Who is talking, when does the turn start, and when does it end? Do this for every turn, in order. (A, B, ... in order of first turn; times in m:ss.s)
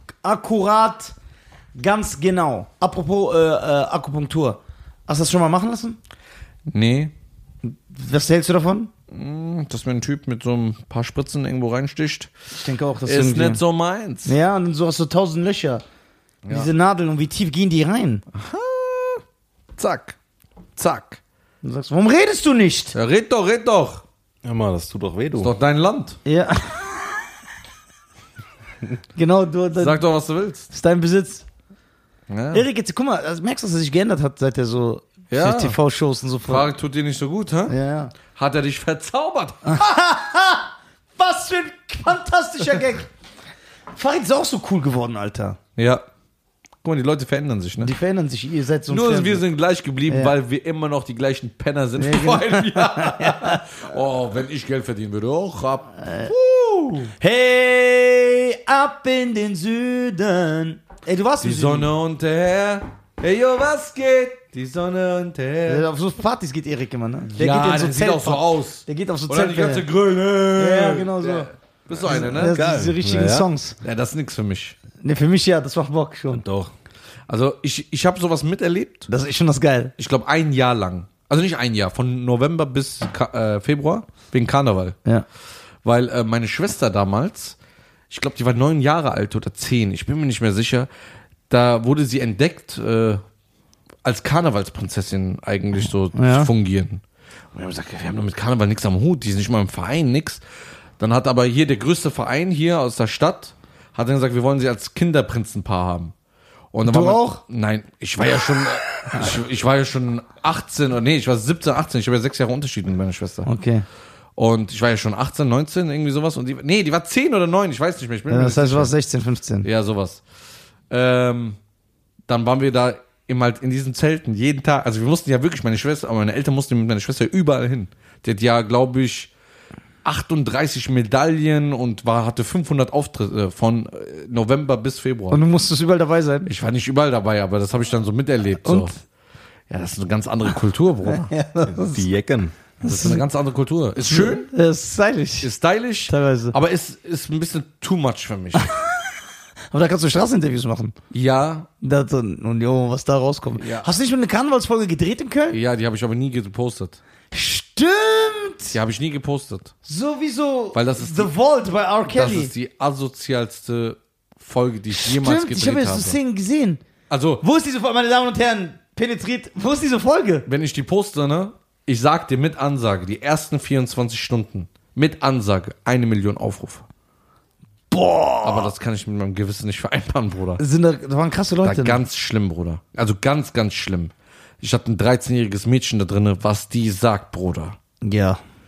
0:00.2-0:01.1 A
0:01.8-0:06.0 A
0:06.7-0:07.1 B
0:07.6-0:08.9 A
0:09.1-0:12.3 B
0:12.5-0:13.6 A
0:13.1-0:14.3 B
0:14.2-0:15.8 A
0:16.4-0:16.7 B
0:16.5-0:18.2 A
0:18.3-0:19.2 B
0:19.8-0:20.2 B
0:20.8-0:21.2 B
0:21.6-0:22.9 A
0:22.9-0:24.0 B
0:24.4-0:25.5 C
0:25.4-0:26.2 B
0:26.2-0:27.2 A
0:29.2-0:30.0 A
0:29.7-0:30.7 B
0:30.7-0:31.4 A
0:32.3-0:32.6 B
0:32.5-0:36.6 A
0:35.3-0:35.8 B
0:36.5-0:37.7 B
0:37.7-0:38.1 A
0:38.3-0:39.8 B
0:39.6-0:43.1 A
0:43.9-0:45.6 A
0:45.8-0:46.0 B
0:46.8-0:47.9 B
0:47.8-0:49.4 A
0:48.9-0:57.1 B
0:52.0-0:53.6 A
0:56.0-0:56.3 A
0:57.2-1:01.9 A
1:01.4-1:05.9 B
1:05.7-1:09.8 A
1:07.4-1:12.6 B
1:10.6-1:11.5 A
1:12.0-1:13.5 C
1:12.1-1:13.8 A
1:13.8-1:14.7 B
1:15.0-1:16.4 A
1:16.3-1:16.7 C
1:17.3-1:19.1 B
1:19.1-1:19.9 A
1:20.0-1:25.0 B
1:25.8-1:27.6 B
1:28.1-1:30.9 B
1:31.5-1:33.2 B
1:34.0-1:37.0 B
1:36.1-1:36.5 A
1:37.5-1:40.4 B
1:41.0-1:46.1 B
1:46.7-1:53.5 B
1:46.8-1:47.4 A
1:53.4-1:53.8 A
1:54.4-1:58.9 B
1:58.3-1:59.7 A
1:59.6-2:00.2 B
2:00.9-2:01.6 B
2:02.3-2:09.3 B
2:10.0-2:15.4 B
2:15.3-2:16.5 A
2:16.4-2:18.9 B
2:18.6-2:18.9 A
2:19.7-2:21.3 B
2:21.1-2:22.0 A
2:21.7-2:22.5 C
2:22.8-2:23.2 A
2:22.8-2:24.5 B
2:24.0-2:25.5 A
2:25.4-2:28.7 B
2:26.1-2:26.6 A
2:28.5-2:29.1 A
2:29.7-2:30.9 A
2:31.1-2:31.7 B
2:31.8-2:35.6 A
2:33.6-2:33.9 B
2:35.5-2:37.0 B
2:37.3-2:38.8 A
2:38.7-2:39.7 B
2:39.8-2:42.5 A
2:40.7-2:41.3 B
2:42.1-2:46.2 B
2:44.9-2:46.8 A
2:47.1-2:47.4 B
2:47.4-2:50.5 A
2:50.5-2:56.8 B
2:57.9-2:58.7 A
2:58.4-3:00.6 B
3:00.6-3:02.0 A
3:01.6-3:07.8 B
3:08.0-3:08.4 A